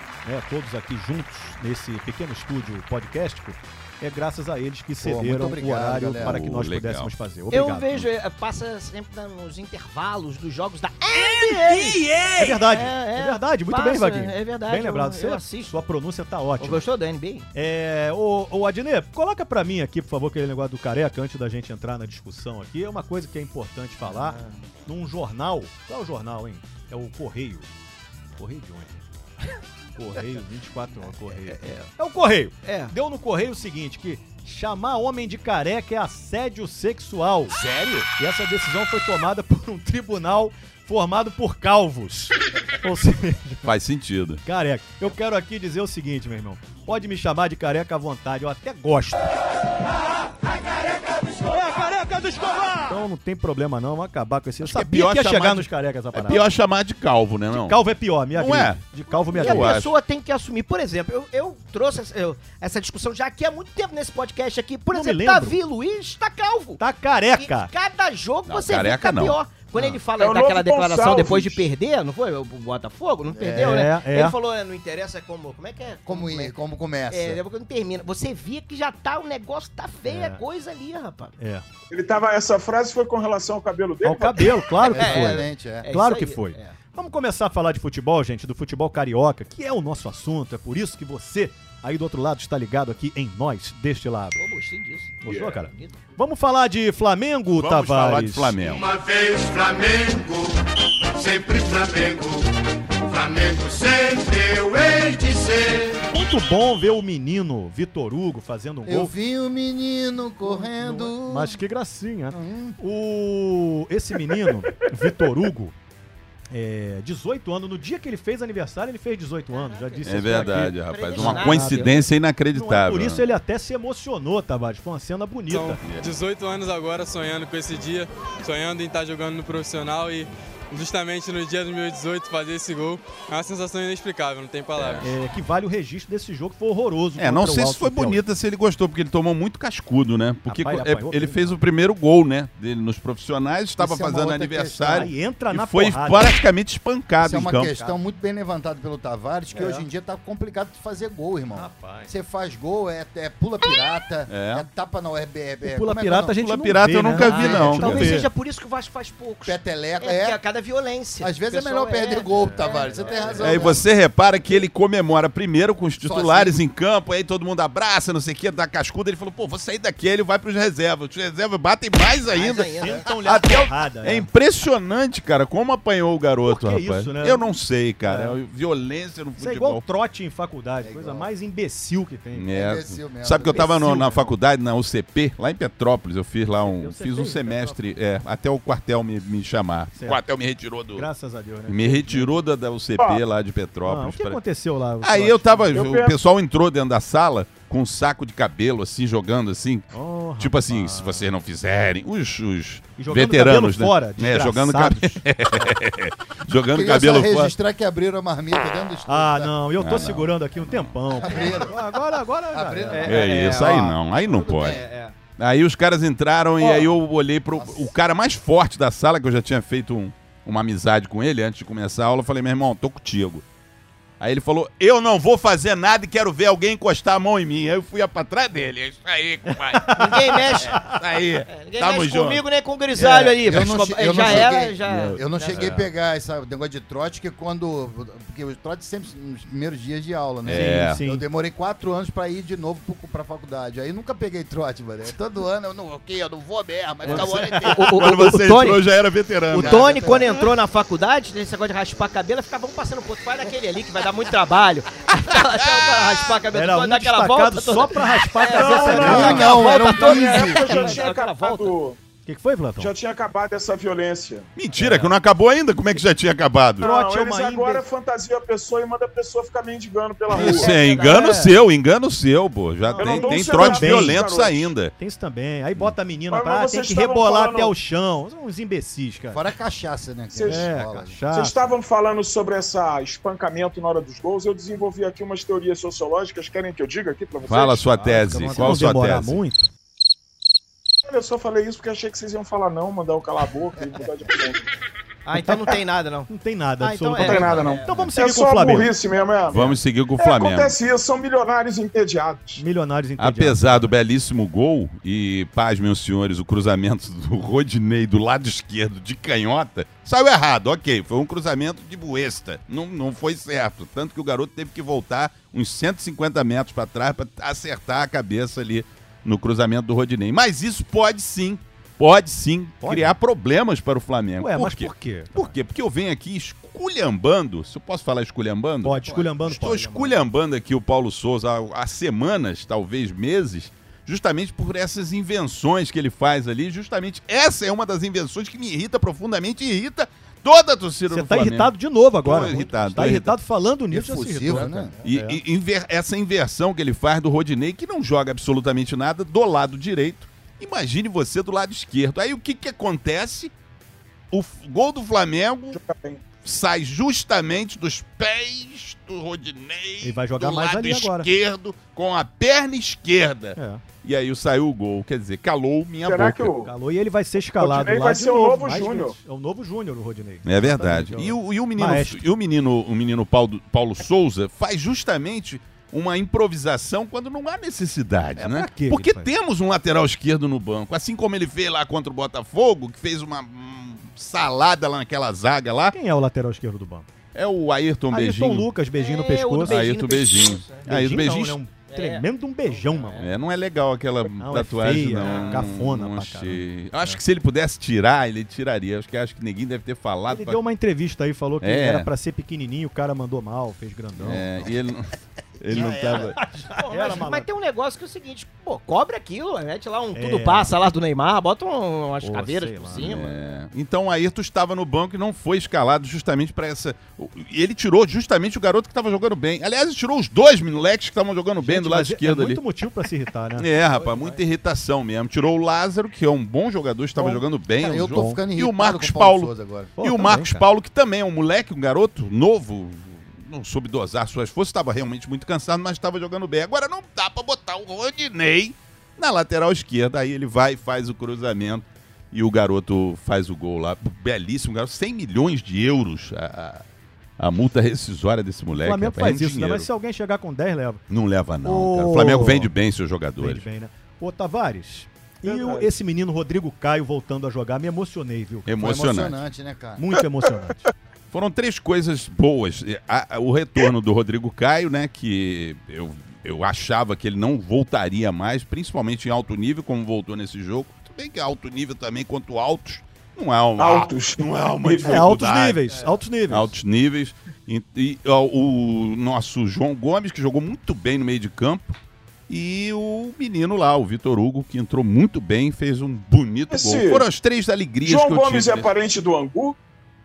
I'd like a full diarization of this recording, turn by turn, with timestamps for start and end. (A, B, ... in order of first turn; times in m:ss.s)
0:00.2-0:07.9 A
0:05.0-0:06.4 B
0:06.2-0:07.1 C
0:07.5-0:15.8 D
0:11.1-0:16.8 A
0:16.6-0:17.5 D
0:17.5-0:27.7 A
0:24.0-0:24.6 D
0:28.4-0:29.0 A
0:30.0-0:37.6 A
0:31.4-0:31.9 D
0:32.6-0:32.9 D
0:38.1-0:43.7 A
0:43.6-0:44.4 C
0:44.4-0:49.3 A
0:51.4-0:56.4 A
0:54.6-0:57.8 C
0:57.5-0:59.8 A
0:58.3-0:58.8 C
0:59.3-0:59.9 C
0:59.3-1:06.8 D
1:04.9-1:05.6 A
1:06.8-1:07.7 A
1:07.3-1:16.5 D
1:08.5-1:09.4 C
1:10.2-1:11.7 E
1:13.3-1:13.8 B
1:13.5-1:14.4 A
1:16.1-1:17.4 B
1:17.1-1:21.3 D
1:20.1-1:20.4 A
1:21.4-1:21.6 A
1:21.9-1:24.5 E
1:24.0-1:34.4 A
1:24.9-1:25.8 B
1:24.9-1:26.7 D
1:34.4-1:36.0 D
1:35.2-1:38.6 A
1:37.5-1:38.9 C
1:38.6-1:46.0 F
1:46.1-1:49.1 A
1:48.8-1:51.5 B
1:50.4-1:55.7 A
1:52.3-1:52.8 B
1:56.5-2:01.9 A
1:59.5-2:02.1 D
2:00.0-2:03.2 C
2:02.5-2:05.8 A
2:05.5-2:15.1 G
2:14.7-2:15.1 C
2:15.0-2:18.2 A
2:17.2-2:27.8 C
2:20.4-2:21.6 A
2:23.8-2:25.1 B
2:24.9-2:26.3 A
2:27.2-2:36.3 B
2:29.5-2:29.8 A
2:31.5-2:32.1 A
2:34.3-2:34.7 C
2:35.6-2:38.3 A
2:36.3-2:38.1 C
2:37.2-2:38.1 B
2:37.2-2:43.8 D
2:39.4-2:40.4 B
2:41.2-2:43.8 B
2:43.0-2:43.4 A
2:43.4-2:59.8 C
2:46.0-2:46.6 B
2:52.3-2:53.0 D
2:52.8-2:54.3 A
2:56.4-2:57.5 A
2:58.0-2:58.4 A
2:59.4-3:02.5 A
3:00.8-3:01.3 B
3:02.3-3:11.1 C
3:02.5-3:04.0 B
3:03.5-3:04.3 A
3:06.6-3:07.8 A
3:09.9-3:10.2 A
3:10.9-3:12.3 A
3:11.7-3:14.4 C
3:13.0-3:13.2 E
3:13.8-3:15.8 A
3:15.0-3:27.5 C
3:15.7-3:16.2 E
3:19.9-3:21.3 A
3:23.0-3:25.2 A
3:26.7-3:29.5 B
3:29.1-3:33.2 A
3:29.8-3:30.9 C
3:31.2-3:31.8 B
3:32.5-3:33.4 B
3:32.9-3:35.1 D
3:33.1-3:34.8 C
3:34.1-3:34.8 B
3:35.4-3:43.4 C
3:36.6-3:36.9 E
3:37.6-3:37.9 B
3:44.2-3:52.4 C
3:49.7-3:50.8 A
3:49.9-3:55.7 D
3:53.0-3:53.4 C
3:53.4-4:08.2 B
3:54.2-3:55.2 C
3:55.5-3:55.9 A
4:00.4-4:01.0 C
4:00.4-4:01.2 A
4:07.0-4:08.8 D
4:07.1-4:07.6 A
4:07.7-4:09.9 C
4:09.5-4:21.7 D
4:09.5-4:10.3 B
4:16.5-4:21.0 A
4:18.5-4:22.0 E
4:18.9-4:20.5 B
4:22.2-4:22.9 A
4:22.8-4:24.5 E
4:24.6-4:26.9 C
4:24.7-4:25.2 A
4:26.8-4:30.7 E
4:26.8-4:27.8 A
4:30.3-4:31.5 D
4:30.3-4:34.9 C
4:31.0-4:31.5 A
4:32.8-4:34.2 A
4:33.0-4:34.7 E
4:35.0-4:39.4 A
4:36.3-4:37.7 E
4:39.3-4:41.2 B
4:40.3-4:40.7 E
4:40.5-4:41.6 A
4:41.3-4:48.0 E
4:47.4-4:49.4 C
4:48.0-4:49.7 A
4:51.1-4:54.6 E
4:55.2-4:58.1 D
4:55.4-4:55.6 A
4:56.3-4:58.9 A
4:57.2-5:02.6 E
4:59.5-5:00.7 C
5:02.6-5:03.9 A
5:03.2-5:43.4 C
5:22.8-5:23.2 A
5:24.4-5:25.5 A
5:28.8-5:30.2 A
5:41.1-5:45.4 A
5:43.9-5:44.9 B
5:45.0-5:53.5 C
5:54.3-5:55.8 C
5:55.7-5:56.2 E
5:56.4-6:06.5 C
6:00.0-6:01.3 A
6:03.6-6:03.8 A
6:06.0-6:06.7 E
6:06.6-6:12.2 A
6:07.6-6:09.2 E
6:10.4-6:25.9 C
6:18.4-6:19.3 A
6:25.9-6:27.1 A
6:27.3-6:28.7 C
6:28.1-6:29.8 A
6:28.9-6:30.8 D
6:29.6-6:31.6 C
6:30.8-6:33.2 A
6:31.9-6:33.3 D
6:33.2-6:40.6 C
6:34.4-6:37.2 A
6:35.2-6:35.7 D
6:40.3-6:44.5 A
6:41.6-6:42.1 C
6:44.2-6:46.4 C
6:45.6-6:46.4 B
6:46.4-6:47.5 A
6:46.6-6:53.4 D
6:50.1-6:50.7 A
6:52.2-6:53.1 A
6:53.0-7:02.6 C
7:01.6-7:03.7 A
7:03.6-7:26.8 C
7:03.9-7:04.4 D
7:07.2-7:09.9 B
7:08.0-7:08.4 A
7:10.0-7:10.6 A
7:27.4-7:29.9 C
7:28.8-7:31.0 A
7:31.1-7:33.6 C
7:31.6-7:32.7 A
7:33.4-7:38.7 A
7:35.4-7:35.9 E
7:38.7-7:39.4 C
7:38.8-7:40.0 B
7:40.0-7:40.9 A
7:41.3-7:55.8 C
7:53.8-7:55.3 E
7:55.0-7:56.7 A
7:56.5-8:02.0 C
8:02.5-8:08.9 C
8:06.7-8:07.3 E
8:08.0-8:09.8 E